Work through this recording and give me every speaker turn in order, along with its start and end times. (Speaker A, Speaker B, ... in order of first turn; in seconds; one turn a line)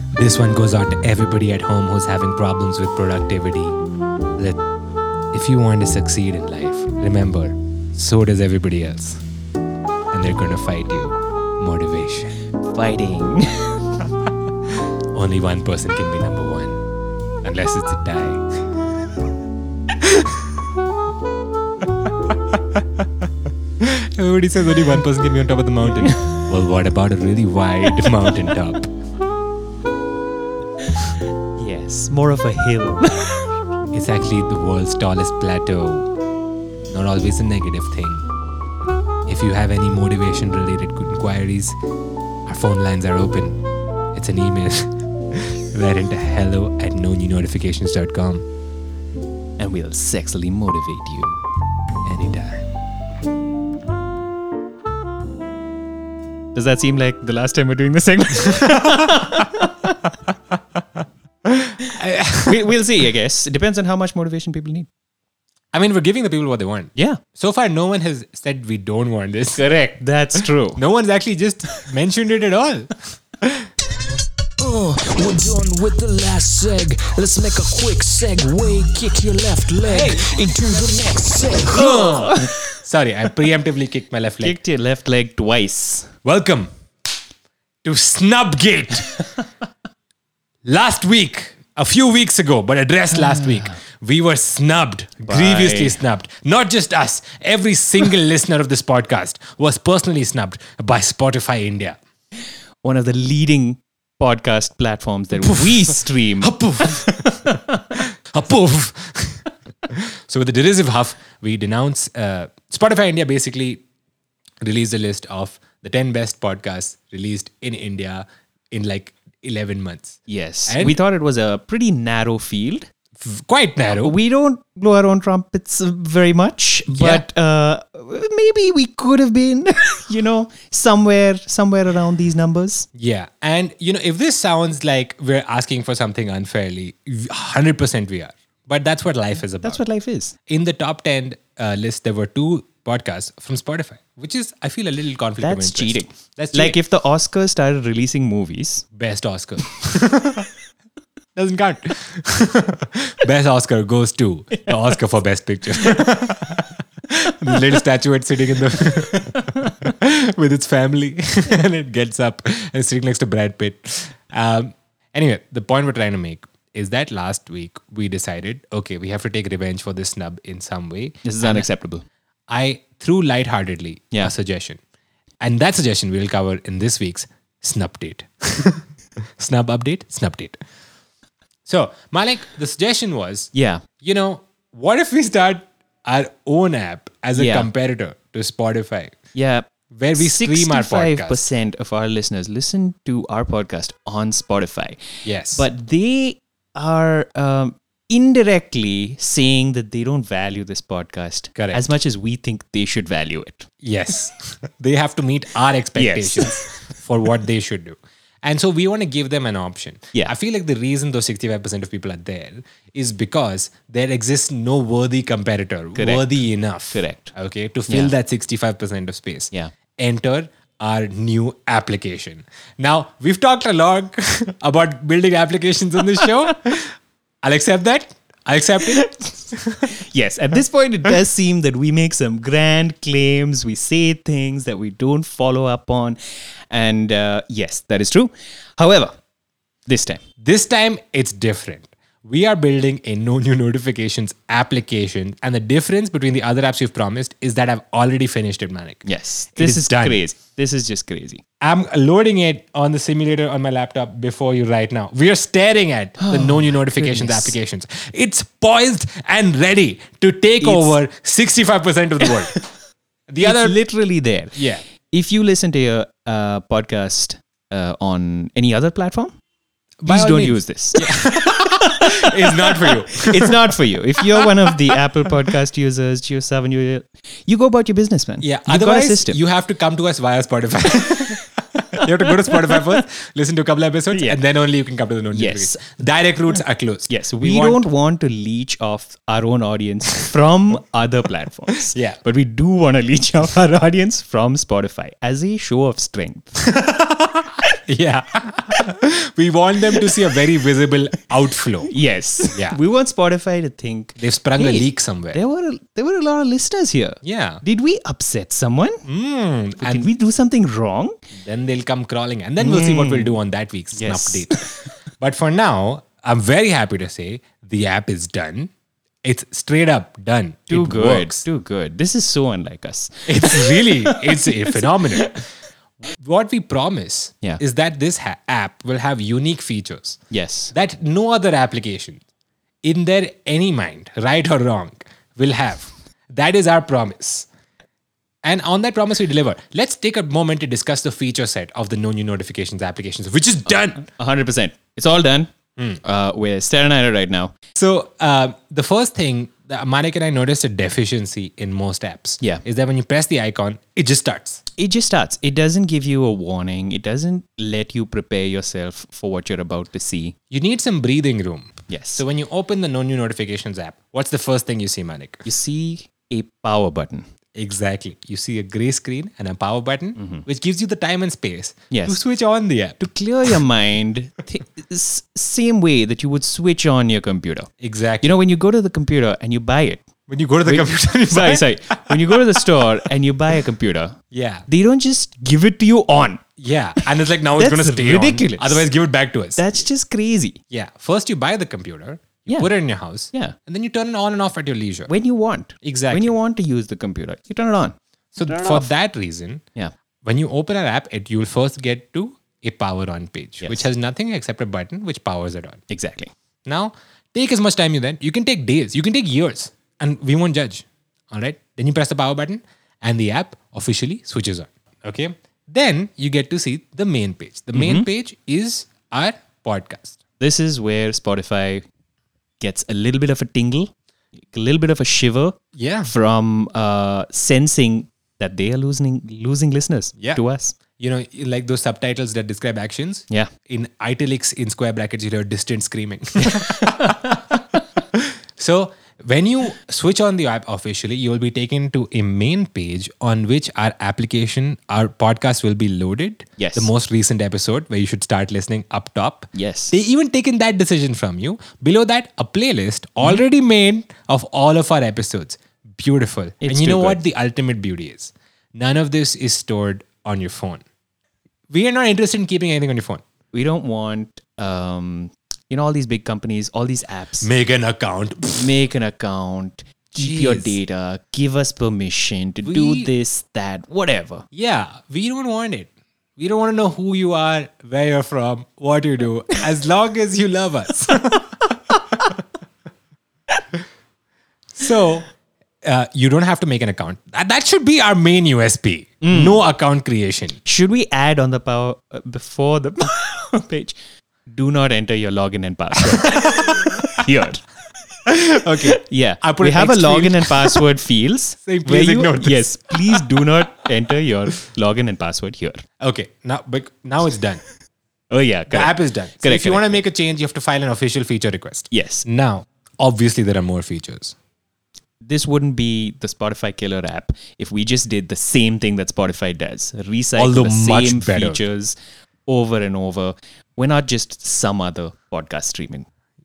Speaker A: 0.1-3.8
Speaker A: 4.4-4.6
Speaker A: 5.3-9.2
Speaker A: 10.1-12.4
Speaker B: 12.6-13.8
Speaker A: 15.1-16.8
Speaker A: 17.4-18.4
Speaker A: 20.0-20.4
Speaker A: 23.8-28.9
Speaker B: 26.0-26.3
Speaker B: 31.6-33.5
Speaker A: 33.9-36.1
Speaker A: 36.9-38.3
Speaker A: 39.3-41.8
Speaker A: 42.5-43.6
Speaker A: 44.1-48.5
Speaker B: 49.6-51.4
Speaker A: 52.0-52.6
Speaker B: 56.5-60.0
Speaker A: 58.5-59.3
Speaker A: 61.5-62.8
Speaker B: 62.4-64.9
Speaker A: 65.7-69.7
Speaker B: 67.0-67.2
Speaker B: 69.6-70.8
Speaker A: 70.4-73.7
Speaker C: 74.6-81.9
Speaker A: 79.8-80.3
Speaker A: 81.7-84.6
Speaker B: 81.8-82.5
Speaker B: 84.4-86.1
Speaker A: 86.2-86.7
Speaker A: 87.8-89.3
Speaker A: 90.6-102.0
Speaker B: 93.2-93.7
Speaker B: 95.3-96.0
Speaker B: 102.8-107.8
Speaker A: 105.4-113.8
Speaker A: 114.6-121.0
Speaker B: 120.3-122.9
Speaker A: 123.2-124.2
Speaker B: 123.9-132.9
Speaker A: 126.9-127.2
Speaker A: 133.0-139.8
Speaker B: 139.6-140.3
Speaker A: 140.5-146.8
Speaker B: 145.4-148.9
Speaker A: 148.9-150.5
Speaker A: 151.3-171.7
Speaker B: 171.2-172.1
Speaker A: 172.5-174.8
Speaker A: 175.4-180.6
Speaker A: 181.7-189.2
Speaker B: 183.5-183.8
Speaker B: 187.4-187.7
Speaker B: 189.3-195.0
Speaker A: 189.9-191.4
Speaker A: 195.2-195.7
Speaker B: 195.5-203.7
Speaker A: 201.6-201.8
Speaker A: 203.8-229.9
Speaker B: 206.0-206.6
Speaker B: 215.9-217.3
Speaker B: 217.9-218.1
Speaker B: 228.8-229.4
Speaker B: 229.9-236.2
Speaker B: 236.7-239.2
Speaker B: 239.9-240.2
Speaker A: 240.4-250.2
Speaker B: 249.1-251.4
Speaker A: 251.6-262.6
Speaker B: 256.2-257.6
Speaker B: 260.6-261.0
Speaker A: 263.3-263.8
Speaker B: 263.4-269.4
Speaker A: 264.6-264.8
Speaker A: 270.0-275.0
Speaker B: 270.1-279.4
Speaker A: 278.4-287.8
Speaker B: 282.0-282.8
Speaker B: 284.1-284.4
Speaker B: 285.3-285.9
Speaker B: 287.1-296.7
Speaker A: 291.9-292.2
Speaker A: 296.7-301.9
Speaker B: 301.9-309.1
Speaker A: 302.5-302.8
Speaker A: 304.2-305.4
Speaker A: 307.2-307.6
Speaker A: 309.1-310.1
Speaker B: 309.8-311.2
Speaker A: 311.3-318.7
Speaker B: 312.6-313.4
Speaker B: 313.9-314.7
Speaker A: 319.2-321.4
Speaker B: 320.7-325.4
Speaker A: 323.3-325.4
Speaker A: 326.2-330.2
Speaker B: 330.3-330.7
Speaker A: 330.7-332.2
Speaker A: 332.8-337.5
Speaker A: 338.4-344.1
Speaker B: 344.0-347.5
Speaker A: 347.8-354.6
Speaker B: 354.8-360.4
Speaker A: 360.5-365.5
Speaker B: 361.9-362.2
Speaker B: 365.4-367.3
Speaker A: 367.6-373.6
Speaker B: 370.2-370.5
Speaker B: 371.9-372.2
Speaker B: 373.0-377.7
Speaker A: 377.8-378.4
Speaker B: 378.2-380.1
Speaker A: 380.3-382.8
Speaker B: 380.7-386.4
Speaker A: 384.3-384.6
Speaker A: 386.6-389.6
Speaker B: 387.0-388.9
Speaker B: 389.6-390.6
Speaker A: 390.7-395.1
Speaker B: 393.3-393.6
Speaker B: 395.1-398.9
Speaker A: 395.8-396.4
Speaker A: 398.3-399.6
Speaker A: 400.2-405.8
Speaker B: 403.6-403.9
Speaker B: 405.9-406.3
Speaker A: 406.7-420.2
Speaker B: 417.7-418.1
Speaker B: 420.4-421.9
Speaker B: 422.6-430.8
Speaker A: 425.8-426.1
Speaker A: 431.0-437.6
Speaker B: 436.7-437.3
Speaker A: 438.1-460.8
Speaker B: 446.6-446.9
Speaker B: 449.5-449.9
Speaker B: 456.6-457.2
Speaker A: 461.7-463.2
Speaker B: 463.5-467.5
Speaker A: 467.4-468.7
Speaker B: 468.6-474.4
Speaker A: 470.1-470.8
Speaker A: 472.6-473.1
Speaker A: 474.5-481.8
Speaker A: 484.8-485.3
Speaker A: 485.8-490.6
Speaker B: 489.2-489.6
Speaker B: 490.6-497.6
Speaker A: 496.1-497.2
Speaker A: 498.3-500.8
Speaker B: 498.8-505.8
Speaker A: 501.6-503.4
Speaker A: 506.0-507.6
Speaker B: 508.3-510.0
Speaker A: 508.7-514.4
Speaker B: 511.9-512.2
Speaker B: 515.2-522.0
Speaker A: 520.4-521.6
Speaker B: 522.5-526.1